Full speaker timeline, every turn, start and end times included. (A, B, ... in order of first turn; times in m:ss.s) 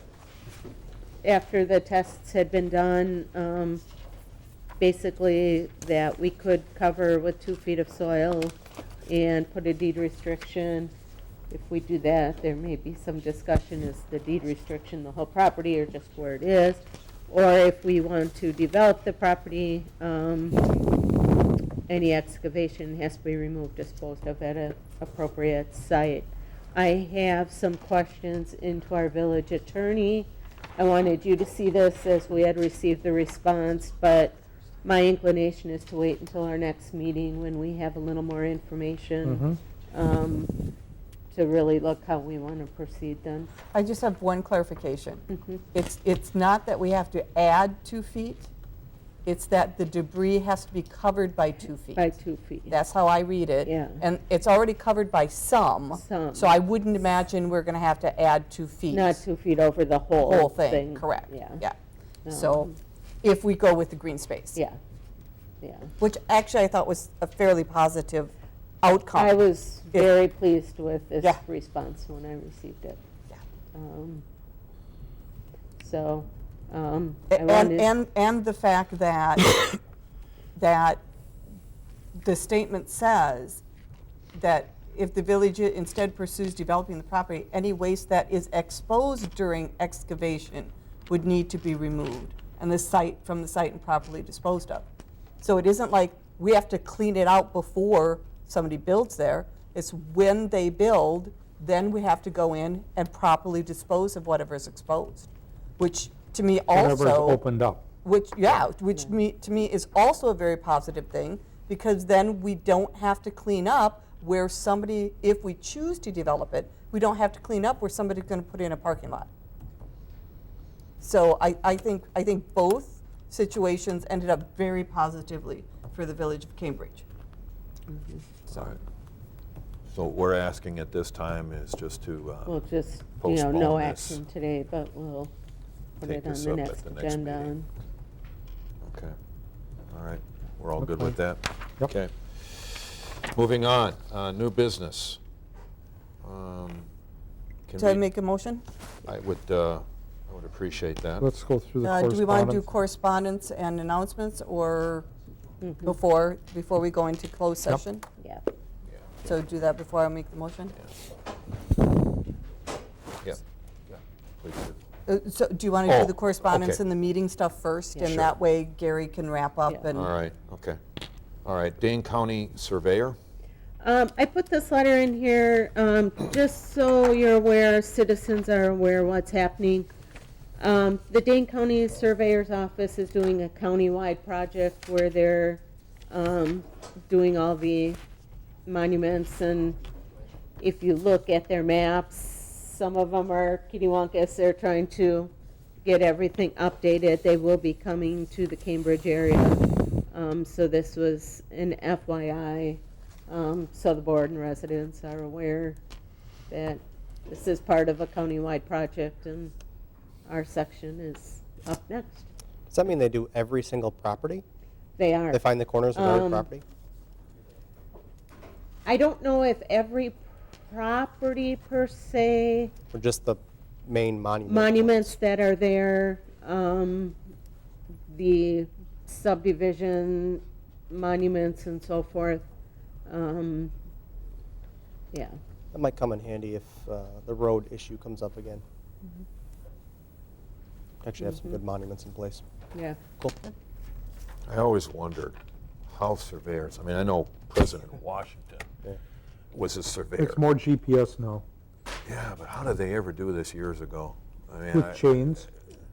0:01.2-0:03.8 A
0:04.8-0:10.9 A
0:11.5-0:20.6 A
0:21.9-0:40.5 A
0:39.2-0:39.6 B
0:41.3-0:43.5 A
0:43.7-0:48.5 C
0:49.2-0:52.0 C
0:51.9-0:52.8 A
0:52.7-0:59.2 C
0:53.6-0:54.0 A
0:55.9-0:56.6 A
0:58.9-1:01.6 A
1:00.2-1:01.8 C
1:02.2-1:02.7 A
1:02.3-1:02.7 C
1:03.2-1:04.6 C
1:05.6-1:05.9 A
1:06.0-1:09.4 C
1:09.1-1:13.0 A
1:13.7-1:14.2 A
1:15.8-1:17.9 A
1:17.3-1:19.7 C
1:20.6-1:21.0 C
1:22.2-1:23.6 C
1:24.3-1:34.9 C
1:35.4-1:47.4 C
1:46.7-1:47.8 B
1:48.0-1:59.3 C
2:01.0-2:07.0 C
2:07.9-2:08.2 A
2:08.5-2:08.8 C
2:09.9-2:12.5 D
2:12.5-2:15.3 A
2:13.2-2:14.2 D
2:16.0-2:17.7 A
2:16.0-2:17.5 D
2:18.8-2:19.1 D
2:19.9-2:25.2 D
2:20.8-2:21.2 B
2:26.2-2:26.9 D
2:27.7-2:28.0 D
2:27.8-2:28.6 C
2:29.0-2:31.3 D
2:31.2-2:32.6 B
2:31.8-2:35.1 C
2:35.6-2:35.9 A
2:35.8-2:38.0 C
2:38.2-2:38.4 A
2:39.2-2:40.8 C
2:44.4-2:44.8 D
2:45.0-2:50.1 C
2:45.9-2:46.8 D
2:48.0-2:48.2 A
2:48.0-2:48.3 D
2:49.9-2:50.8 D
2:51.4-2:53.2 D
2:53.8-2:59.9 A
3:00.6-3:08.0 A
3:08.6-3:09.8 A
3:10.6-3:15.3 A
3:15.8-3:25.8 A
3:26.5-3:29.5 A
3:30.3-3:32.3 A
3:32.7-3:34.4 E
3:35.0-3:36.5 A
3:35.3-3:36.6 E
3:38.8-3:42.7 A
3:42.9-3:45.1 E
3:44.4-3:47.2 A
3:48.1-3:52.4 A
3:53.0-3:53.7 A
3:55.1-3:55.4 A
3:55.7-3:58.6 E
4:01.0-4:02.4 E
4:01.2-4:01.5 A
4:02.7-4:03.0 A
4:03.2-4:03.5 E
4:04.5-4:05.4 D
4:05.9-4:08.7 D
4:09.5-4:10.4 D
4:10.2-4:11.4 B
4:12.0-4:15.3 D
4:14.7-4:15.5 B